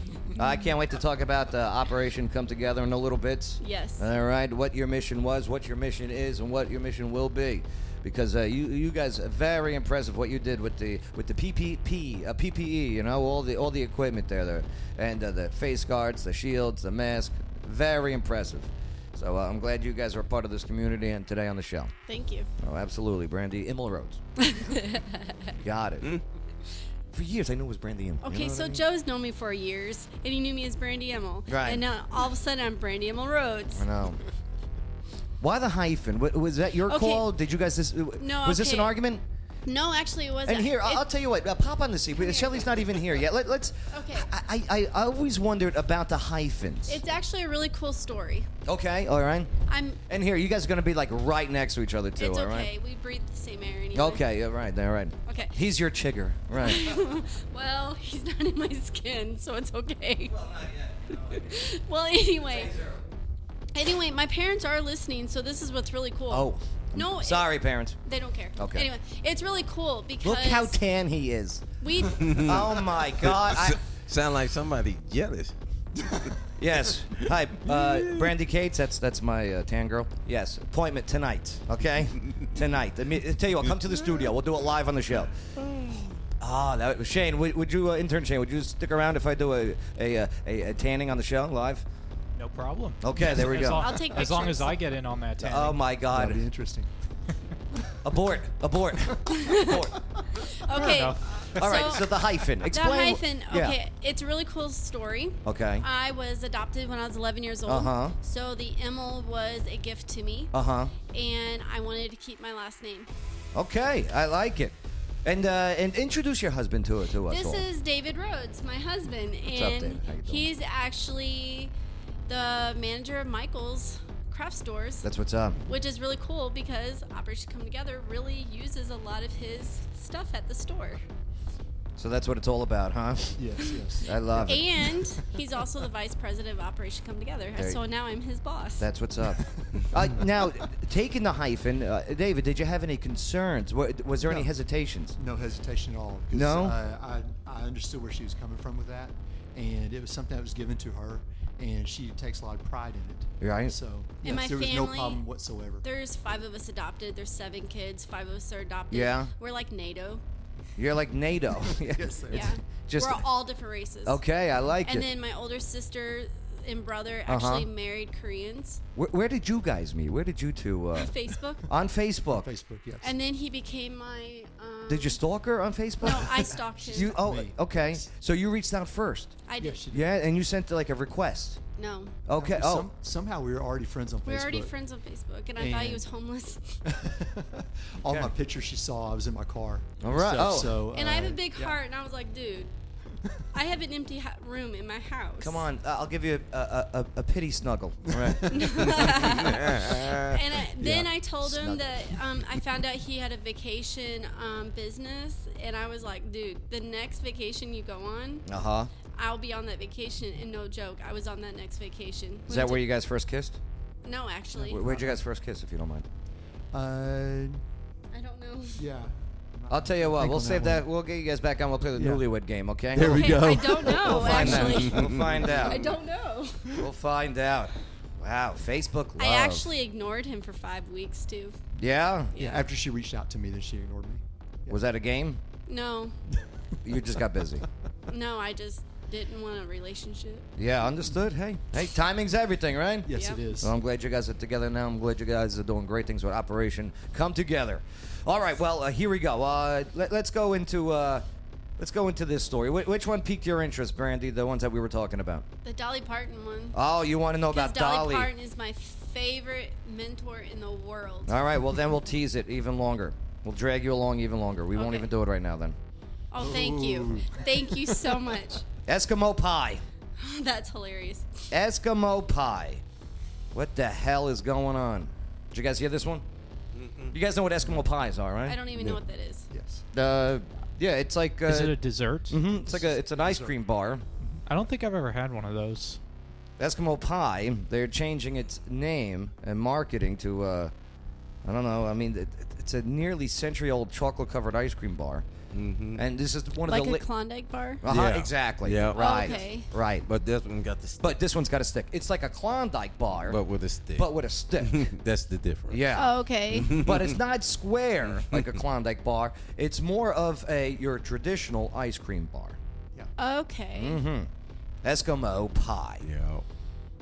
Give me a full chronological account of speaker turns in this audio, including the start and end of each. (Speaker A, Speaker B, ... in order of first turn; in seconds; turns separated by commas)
Speaker A: 0.3-21.9, Speaker B: 3.6-4.1, Speaker B: 22.1-22.5, Speaker A: 22.6-24.2, Speaker B: 24.4-25.5, Speaker A: 25.6-26.2, Speaker A: 27.1-28.8, Speaker B: 28.2-33.9, Speaker A: 31.5-31.8, Speaker A: 33.7-34.2, Speaker A: 35.4-39.2, Speaker B: 36.9-37.3, Speaker B: 38.2-39.0, Speaker B: 39.7-41.1, Speaker A: 40.5-47.0, Speaker B: 42.2-42.9, Speaker B: 43.9-44.3, Speaker B: 46.9-48.5, Speaker A: 48.6-49.5, Speaker B: 49.7-50.0, Speaker A: 50.1-52.7, Speaker B: 52.2-54.2, Speaker A: 53.9-57.1, Speaker B: 55.3-55.5, Speaker B: 56.6-60.4, Speaker A: 60.3-61.7, Speaker B: 61.1-62.7, Speaker A: 62.4-63.1, Speaker B: 63.8-70.8, Speaker A: 66.3-68.0, Speaker A: 68.6-68.9, Speaker A: 70.2-71.7, Speaker B: 71.8-72.4, Speaker C: 72.1-76.4, Speaker A: 72.2-73.8, Speaker A: 76.6-85.3, Speaker C: 77.2-78.3, Speaker C: 85.6-86.2, Speaker A: 86.4-91.9, Speaker D: 92.3-95.8, Speaker A: 93.0-93.9, Speaker B: 93.6-94.8, Speaker A: 95.4-96.4, Speaker E: 95.5-96.9, Speaker A: 98.0-100.0, Speaker B: 99.3-99.8, Speaker B: 100.4-102.0, Speaker E: 100.7-101.1, Speaker D: 100.8-101.4, Speaker A: 101.5-103.8, Speaker B: 102.7-110.5, Speaker A: 105.4-105.8, Speaker A: 107.7-108.2, Speaker A: 110.5-110.9, Speaker B: 111.1-113.1, Speaker A: 113.5-117.7, Speaker B: 117.3-121.7, Speaker A: 119.5-120.5, Speaker B: 122.3-125.0, Speaker A: 125.0-125.6, Speaker B: 125.7-131.0, Speaker A: 132.0-134.9, Speaker E: 133.4-135.0, Speaker B: 134.5-138.9, Speaker A: 137.6-137.8, Speaker A: 138.8-145.2, Speaker E: 139.7-140.2, Speaker E: 144.2-144.5, Speaker E: 145.2-155.8, Speaker A: 146.3-146.8, Speaker A: 153.4-153.8, Speaker B: 154.2-155.2, Speaker B: 155.8-160.2, Speaker A: 158.9-159.3, Speaker A: 160.8-163.2, Speaker E: 161.7-162.5, Speaker B: 162.3-164.2, Speaker A: 164.1-165.1, Speaker B: 164.8-168.8, Speaker A: 167.3-167.7, Speaker A: 168.9-171.1, Speaker B: 170.9-171.7, Speaker A: 171.7-172.5, Speaker E: 172.3-173.1, Speaker B: 173.0-175.2, Speaker A: 174.9-181.6, Speaker B: 176.0-177.2, Speaker E: 176.4-178.0, Speaker B: 179.5-179.8, Speaker E: 179.6-180.1, Speaker B: 181.8-182.1, Speaker A: 182.3-182.9, Speaker E: 182.4-184.7, Speaker B: 184.3-186.8, Speaker E: 185.6-186.1, Speaker E: 186.8-191.8, Speaker A: 188.1-188.3, Speaker A: 190.0-190.9, Speaker B: 190.9-192.7, Speaker B: 193.5-195.7, Speaker A: 195.4-199.3, Speaker E: 198.2-198.8, Speaker B: 198.5-208.5, Speaker C: 199.4-200.3, Speaker A: 200.8-201.9, Speaker A: 208.5-208.9, Speaker B: 209.2-212.8, Speaker A: 212.5-213.6, Speaker B: 214.0-214.8, Speaker E: 214.6-215.2, Speaker A: 214.7-216.1, Speaker E: 216.7-217.6, Speaker B: 218.1-218.8, Speaker E: 218.8-220.8, Speaker A: 219.7-225.9, Speaker E: 222.0-222.2, Speaker C: 223.0-225.3, Speaker E: 223.0-225.9, Speaker B: 223.0-226.6, Speaker A: 226.8-229.7, Speaker B: 229.2-231.6, Speaker A: 231.8-232.4, Speaker B: 232.3-232.7, Speaker E: 232.4-234.8, Speaker A: 234.7-235.4, Speaker B: 235.7-236.1, Speaker A: 236.8-237.7, Speaker B: 238.1-240.5, Speaker A: 240.6-251.2, Speaker E: 243.1-243.7, Speaker B: 243.1-243.4, Speaker A: 251.8-255.5, Speaker B: 255.7-256.8, Speaker A: 256.7-258.3, Speaker B: 257.5-261.3, Speaker A: 261.3-265.8, Speaker B: 264.7-265.1, Speaker B: 266.3-268.6, Speaker E: 266.4-268.1, Speaker A: 268.9-269.8, Speaker B: 270.2-271.3, Speaker A: 271.5-272.8, Speaker A: 273.5-276.2, Speaker C: 276.7-277.2, Speaker A: 277.1-278.6, Speaker B: 278.4-279.5, Speaker E: 279.5-279.8, Speaker A: 279.9-281.8, Speaker D: 281.5-282.4, Speaker A: 282.3-284.0, Speaker E: 282.5-283.5, Speaker D: 284.5-286.0, Speaker A: 286.6-290.7, Speaker A: 291.4-295.3, Speaker C: 295.5-296.0, Speaker A: 295.9-297.1, Speaker B: 296.7-297.8, Speaker A: 297.8-300.1, Speaker C: 297.9-299.3, Speaker B: 298.9-299.7, Speaker C: 300.1-301.2, Speaker A: 301.0-303.4, Speaker C: 303.3-305.8, Speaker A: 303.9-304.9, Speaker A: 305.7-312.6, Speaker B: 305.9-306.7, Speaker C: 306.5-307.2, Speaker C: 308.2-308.5, Speaker B: 313.2-314.0, Speaker A: 313.8-314.3, Speaker A: 314.8-316.1, Speaker C: 316.0-316.4